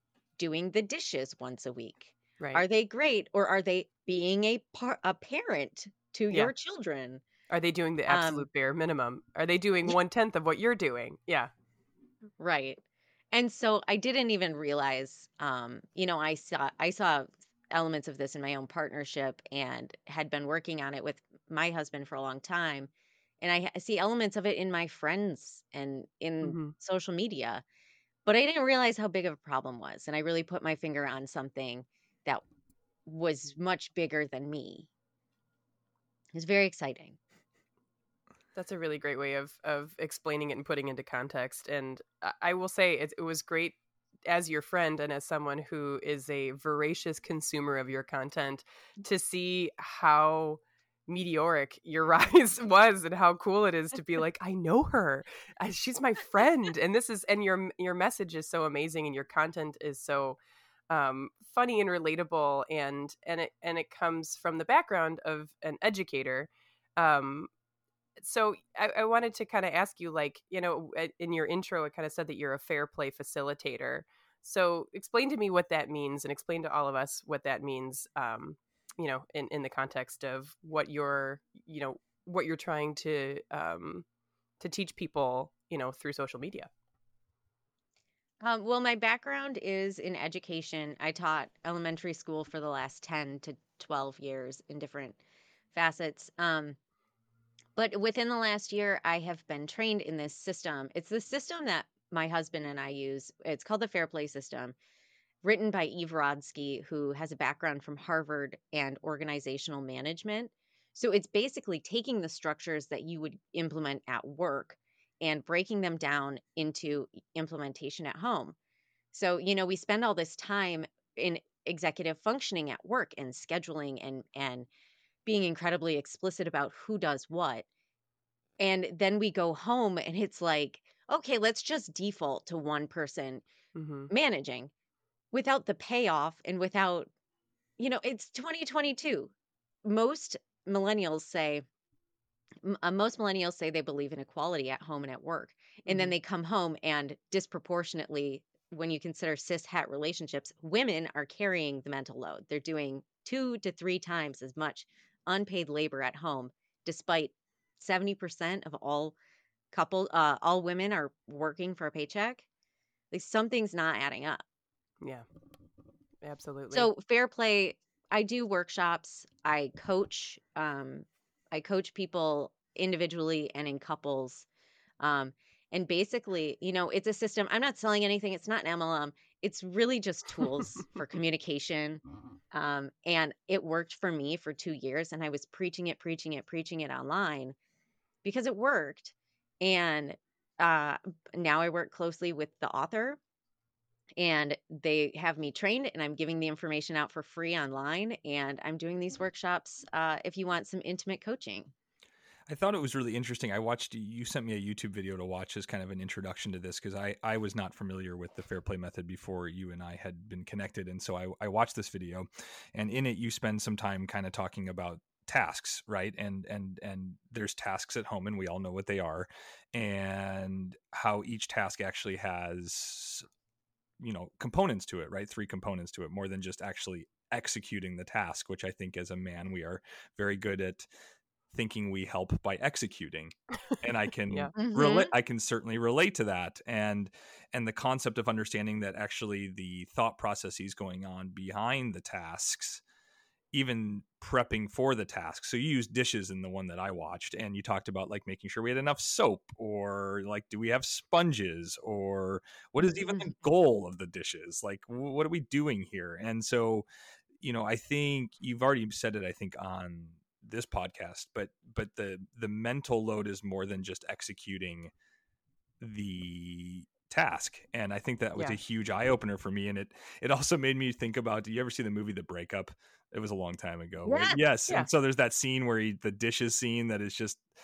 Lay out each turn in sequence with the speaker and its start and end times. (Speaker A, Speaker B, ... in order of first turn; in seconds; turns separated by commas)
Speaker A: 0.4-7.2, Speaker B: 7.5-11.5, Speaker A: 8.1-8.4, Speaker A: 12.4-12.8, Speaker A: 13.3-22.9, Speaker A: 23.4-27.6, Speaker B: 26.4-26.7, Speaker A: 28.2-32.4, Speaker A: 33.0-34.9, Speaker A: 36.3-37.2, Speaker B: 38.5-60.4, Speaker B: 60.9-67.5, Speaker B: 68.2-84.0, Speaker B: 84.6-86.7, Speaker A: 88.4-95.2, Speaker A: 95.7-96.8, Speaker A: 97.8-104.7, Speaker A: 105.4-118.5, Speaker A: 119.1-124.7, Speaker A: 125.2-127.7, Speaker A: 128.6-133.4, Speaker B: 133.7-134.1, Speaker A: 134.1-134.7, Speaker A: 135.3-137.1, Speaker A: 137.8-139.3, Speaker A: 139.8-141.6, Speaker A: 142.6-159.1, Speaker B: 145.9-146.1, Speaker A: 159.7-162.4, Speaker A: 163.1-164.4, Speaker B: 166.2-166.9, Speaker A: 166.7-174.5, Speaker A: 175.0-187.6, Speaker A: 188.2-193.2, Speaker A: 194.2-201.7, Speaker C: 202.5-223.2, Speaker C: 224.0-230.9, Speaker C: 231.5-242.8, Speaker A: 234.6-235.1, Speaker C: 243.5-256.8, Speaker A: 252.8-253.3, Speaker C: 257.4-264.9, Speaker C: 265.8-277.4, Speaker A: 274.0-274.4